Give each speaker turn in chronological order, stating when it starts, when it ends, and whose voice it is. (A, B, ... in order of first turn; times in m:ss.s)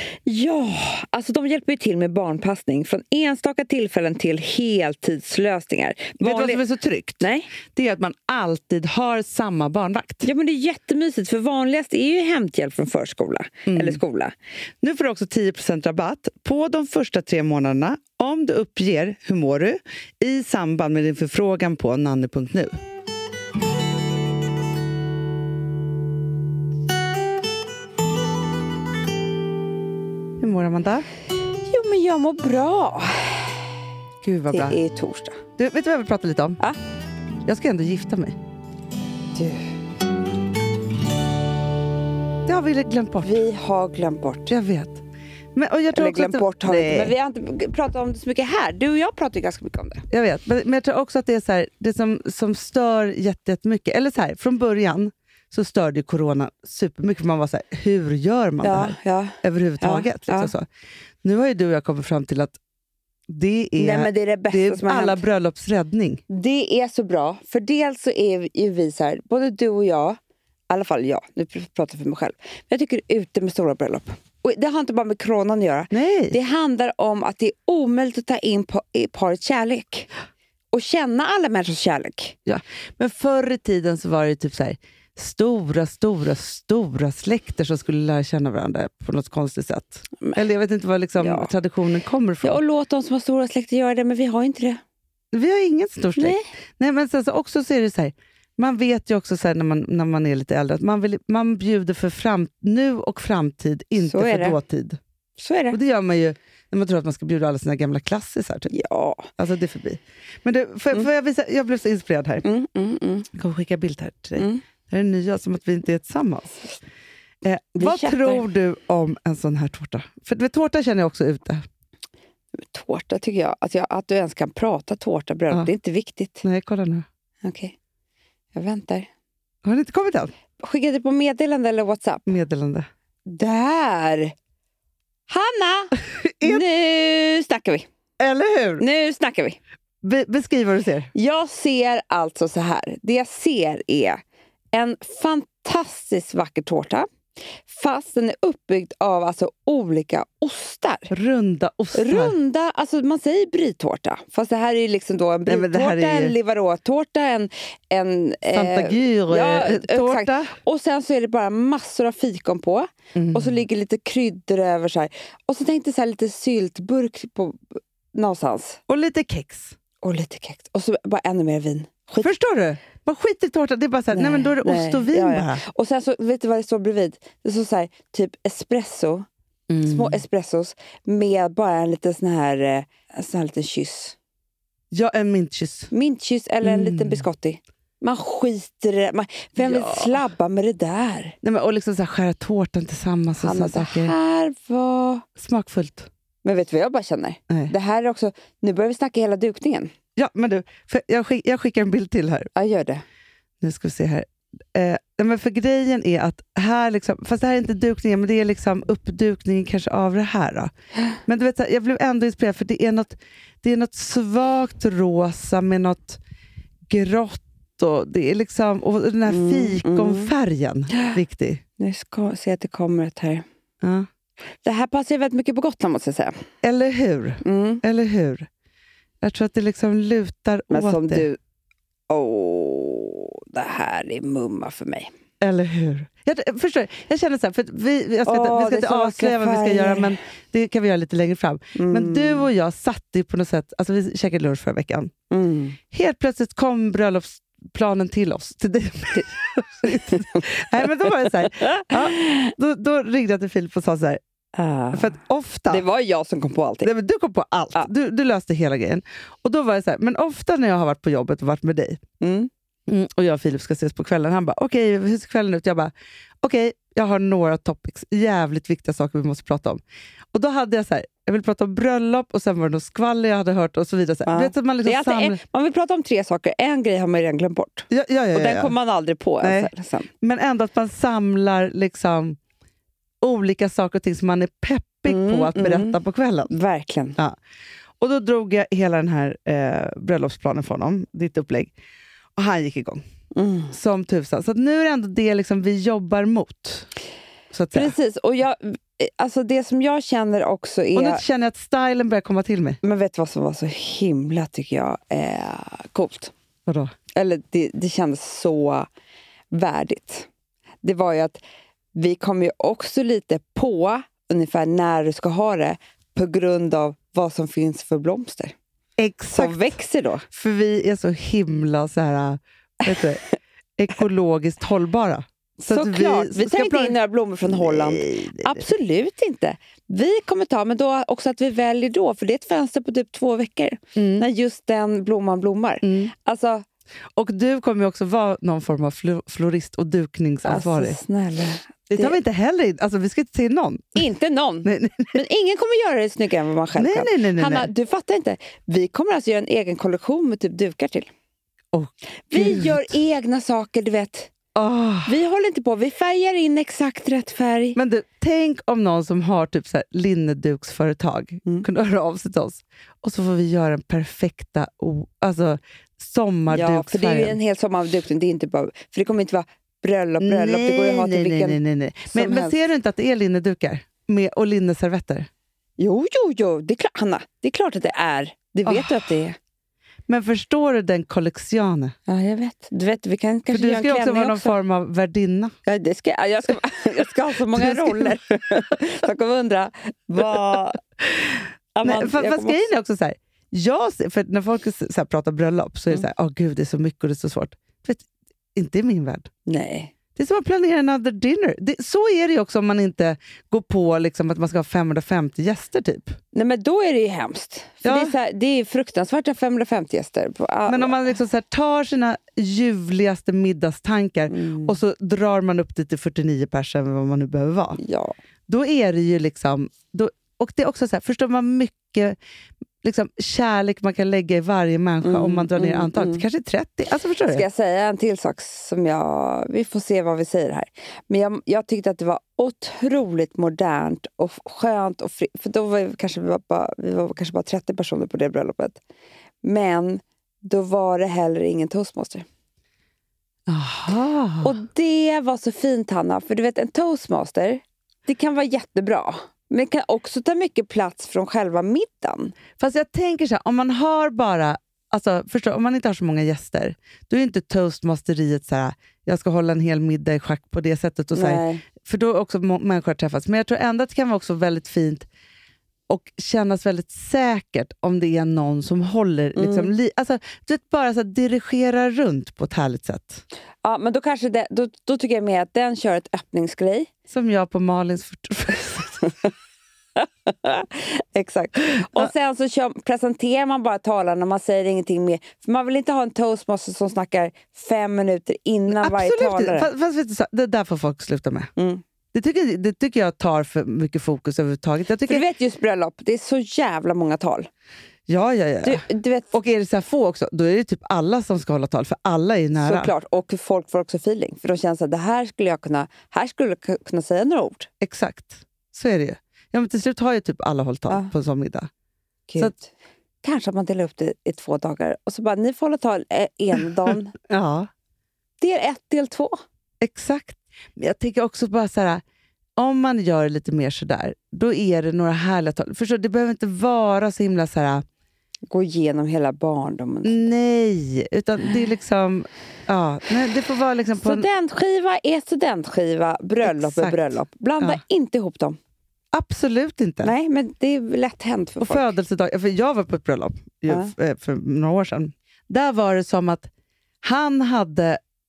0:00.2-0:06.6 A
0:06.2-0:10.3 B
0:07.2-0:07.5 A
0:10.2-0:14.3 A
0:13.7-0:14.0 B
0:14.8-0:22.8 B
0:30.4-0:31.1 B
0:31.7-0:33.7 A
0:34.2-0:34.8 B
0:34.5-0:35.4 A
0:35.6-0:36.6 B
0:37.4-0:38.4 B
0:39.3-0:39.7 A
0:42.4-0:43.4 B
0:43.2-0:44.5 A
0:44.5-0:45.0 B
0:45.6-0:47.1 B
0:45.9-0:50.0 A
0:50.1-1:00.7 B
0:58.6-1:00.5 A
1:01.2-1:02.6 B
1:03.3-1:06.2 B
1:03.8-1:05.2 A
1:06.3-1:10.2 A
1:10.7-1:20.1 A
1:15.9-1:16.4 B
1:20.7-1:22.4 A
1:22.5-1:32.6 B
1:31.2-1:31.5 A
1:32.4-1:34.8 A
1:35.3-1:45.0 B
1:36.2-1:36.5 A
1:44.0-1:44.6 A
1:45.4-1:45.8 A
1:45.7-1:48.7 B
1:48.7-1:49.3 A
1:49.4-1:52.5 B
1:52.4-1:53.3 A
1:53.3-1:56.7 B
1:54.4-1:54.6 A
1:57.4-2:01.6 B
1:57.8-1:58.5 A
2:02.6-2:06.4 A
2:06.4-2:07.0 B
2:07.4-2:07.8 A
2:08.5-2:09.1 A
2:09.6-2:10.3 B
2:10.6-2:12.3 A
2:12.2-2:12.8 B
2:13.3-2:14.3 A
2:15.3-2:17.8 A
2:16.0-2:16.6 B
2:18.2-2:18.8 B
2:18.8-2:19.6 A
2:20.0-2:21.1 B
2:21.1-2:24.2 A
2:24.7-2:27.0 A
2:27.7-2:31.1 A
2:31.1-2:32.3 B
2:31.9-2:48.8 A
2:35.5-2:36.3 B
2:38.5-2:40.5 B
2:43.1-2:43.5 B
2:48.9-2:49.8 B
2:50.0-2:52.3 A
2:52.2-2:55.6 B
2:54.1-2:59.2 A
2:59.7-3:00.2 B
2:59.8-3:04.2 A
3:04.9-3:05.9 B
3:05.9-3:11.4 A
3:06.6-3:07.2 B
3:09.6-3:10.1 B
3:11.4-3:14.1 B
3:13.4-3:15.2 A
3:15.4-3:16.1 B
3:16.4-3:19.9 A
3:20.2-3:22.5 B
3:22.6-3:23.0 A
3:23.6-3:30.7 B
3:31.2-3:36.2 B
3:36.9-3:41.6 B
3:39.3-3:40.3 A
3:41.8-3:43.4 A
3:43.8-3:44.1 B
3:44.6-3:46.4 A
3:46.6-3:48.5 B
3:47.4-3:47.8 A
3:49.2-3:51.2 B
3:50.7-3:51.4 A
3:52.1-3:55.1 A
3:55.4-4:05.1 B
3:58.2-4:00.2 A
4:01.8-4:02.5 A
4:05.3-4:05.8 A
4:05.9-4:14.2 B
4:09.9-4:10.4 A
4:11.5-4:12.5 A
4:14.5-4:15.1 A
4:14.9-4:15.8 B
4:15.7-4:16.9 A
4:16.8-4:22.0 B
4:22.2-4:22.5 A
4:22.9-4:29.8 B
4:30.3-4:35.4 B
4:34.2-4:40.1 A
4:37.9-4:38.7 B
4:39.4-4:42.4 B
4:43.2-4:46.5 B
4:45.0-4:46.0 A
4:46.5-4:47.2 A
4:48.0-4:51.7 B
4:52.4-4:53.0 B
4:53.4-4:53.8 A
4:53.7-4:56.9 B
4:57.5-4:57.9 B
4:57.7-5:01.2 A
5:01.0-5:02.8 B
5:02.8-5:06.3 A
5:06.7-5:06.9 B
5:07.2-5:08.9 A
5:09.5-5:10.3 A
5:10.8-5:11.4 A
5:11.9-5:18.5 A
5:19.0-5:19.8 B
5:19.4-5:20.2 A
5:20.3-5:23.2 B
5:23.8-5:26.9 B
5:25.6-5:36.6 A
5:27.5-5:28.5 B
5:34.0-5:34.2 B
5:35.8-5:36.1 B
5:37.2-5:41.0 B
5:40.4-5:42.2 A
5:41.9-5:44.0 B
5:44.0-5:51.1 A
5:44.6-5:45.2 B
5:46.8-5:47.7 B
5:51.7-5:52.9 B
5:52.3-5:54.3 A
5:54.6-5:55.1 B
5:55.1-5:57.8 A
5:57.8-6:07.4 B
6:06.5-6:11.6 A
6:10.2-6:15.3 B
6:12.1-6:12.6 A
6:15.8-6:19.4 A
6:18.7-6:19.1 B
6:20.1-6:21.9 B
6:22.1-6:24.6 A
6:23.5-6:25.5 B
6:25.6-6:30.8 A
6:27.5-6:28.2 B
6:30.3-6:39.3 B
6:31.8-6:32.6 A
6:39.5-6:39.9 A
6:40.2-6:46.2 B
6:46.3-6:51.1 A
6:47.8-6:48.1 B
6:50.7-6:57.8 B
6:54.3-6:54.8 A
6:57.8-6:58.2 A
6:58.5-7:02.2 B
7:02.8-7:07.4 B
7:05.0-7:06.2 A
7:07.3-7:18.8 A
7:19.4-7:22.2 A
7:23.5-7:24.5 B
7:24.4-7:32.4 A
7:32.6-7:45.1 B
7:41.1-7:41.6 A
7:45.9-7:53.2 B
7:49.4-7:49.7 A
7:53.6-7:56.9 A
7:57.1-7:59.2 B
8:00.0-8:09.7 A
8:08.7-8:11.5 B
8:11.6-8:11.8 A
8:12.1-8:15.2 B
8:15.1-8:17.5 A
8:18.1-8:22.9 B
8:18.6-8:19.3 A
8:22.6-8:27.7 A
8:27.8-8:31.7 B
8:30.9-8:31.1 A
8:32.3-8:32.7 A
8:33.2-8:37.1 A
8:37.3-8:37.7 B
8:38.4-8:39.4 A
8:39.8-8:42.0 B
8:42.6-8:47.8 B
8:48.5-8:50.2 A
8:50.0-8:54.2 B
8:54.0-8:58.6 A
8:56.4-8:57.8 B
8:59.1-9:00.1 B
9:00.0-9:01.9 A
9:01.6-9:06.5 B
9:07.0-9:08.0 B